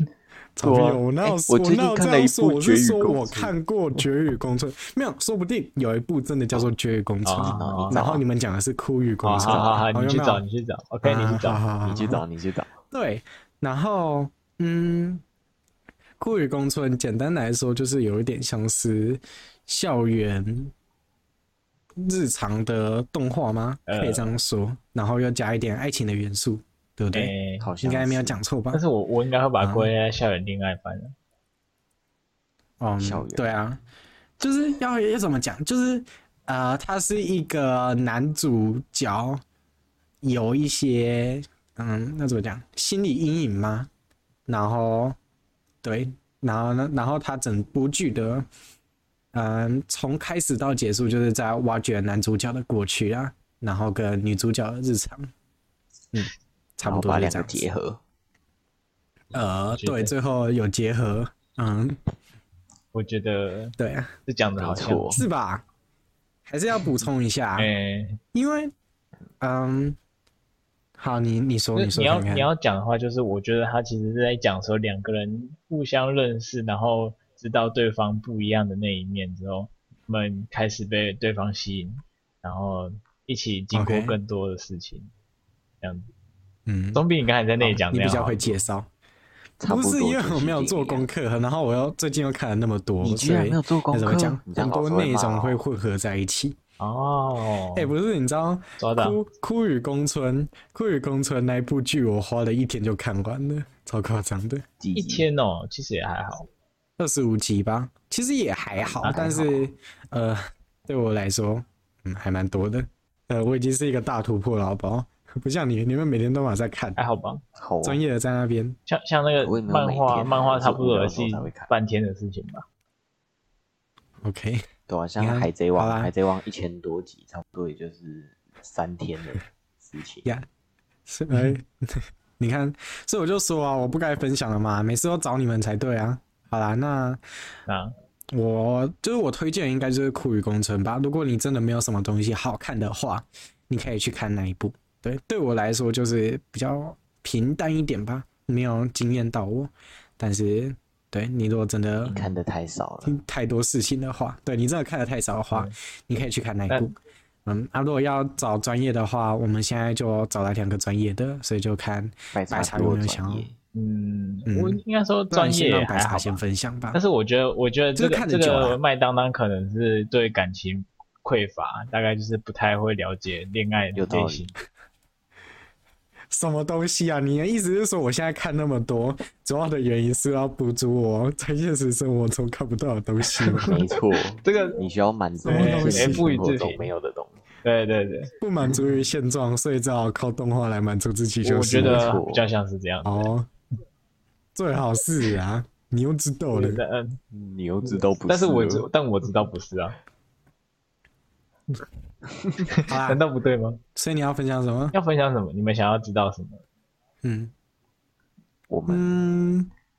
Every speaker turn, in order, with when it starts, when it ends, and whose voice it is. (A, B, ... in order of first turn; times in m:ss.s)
0:00.6-0:10.4 A
0:00.6-0:03.5 B
0:07.2-0:08.0 C
0:07.4-0:08.2 B
0:09.2-0:11.6 C
0:09.4-0:09.8 B
0:11.0-0:12.2 A
0:11.8-0:12.7 B
0:12.9-0:15.2 A
0:16.2-0:20.7 A
0:22.0-0:28.8 A
0:23.9-0:24.4 C
0:27.1-0:27.7 C
0:27.6-0:28.4 B
0:28.7-0:31.1 C
0:29.6-0:29.9 A
0:32.8-0:33.8 A
0:33.0-0:33.6 B
0:34.4-0:39.4 A
0:40.2-0:43.9 A
0:44.5-0:45.2 A
0:45.8-0:48.5 A
0:49.3-0:55.3 A
0:56.1-0:57.7 A
0:56.8-0:58.0 B
0:59.3-1:02.0 A
0:59.8-1:00.1 C
1:02.9-1:05.2 C
1:03.8-1:04.1 A
1:04.6-1:05.2 B
1:05.1-1:05.6 A
1:06.4-1:07.7 A
1:07.6-1:08.2 C
1:08.3-1:08.7 A
1:09.4-1:10.0 A
1:11.0-1:12.5 A
1:11.7-1:25.1 C
1:23.7-1:24.2 A
1:25.8-1:26.1 C
1:26.6-1:27.0 A
1:26.9-1:28.6 C
1:27.6-1:28.9 A
1:29.6-1:31.1 B
1:29.7-1:36.6 A
1:33.0-1:35.6 B
1:36.8-1:37.9 C
1:37.8-1:44.6 A
1:38.8-1:39.2 C
1:44.8-1:45.2 B
1:45.0-1:46.5 C
1:47.0-1:57.0 A
1:49.0-1:49.5 C
1:57.0-1:57.4 C
1:57.6-1:58.0 B
1:57.8-1:58.8 A
1:58.9-2:02.6 C
1:59.4-2:01.7 B
2:04.2-2:04.7 A
2:04.9-2:10.3 B
2:05.2-2:06.1 A
2:11.0-2:17.2 A
2:17.7-2:17.9 C
2:18.3-2:32.2 A
2:32.0-2:32.4 C
2:32.1-2:33.2 B
2:33.0-2:36.9 A
2:37.4-2:43.5 A
2:42.3-2:43.5 B
2:43.7-2:46.4 C
2:44.5-2:47.0 A
2:46.9-2:54.5 C
2:48.0-2:48.8 A
2:53.9-2:54.5 B
2:56.3-3:03.7 A
3:03.3-3:04.8 C
3:03.6-3:07.4 B
3:05.4-3:06.3 A
3:05.4-3:06.9 C
3:07.6-3:08.3 C
3:08.4-3:12.2 A
3:08.6-3:09.0 B
3:11.4-3:13.3 C
3:11.8-3:12.4 B
3:13.0-3:13.5 A
3:14.5-3:16.8 A
3:16.5-3:17.2 C
3:17.3-3:18.9 B
3:17.8-3:20.0 C
3:22.6-3:23.8 C
3:22.8-3:23.2 A
3:24.0-3:24.9 A
3:24.9-3:26.6 C
3:27.2-3:27.5 A
3:28.7-3:29.1 B
3:28.9-3:29.7 A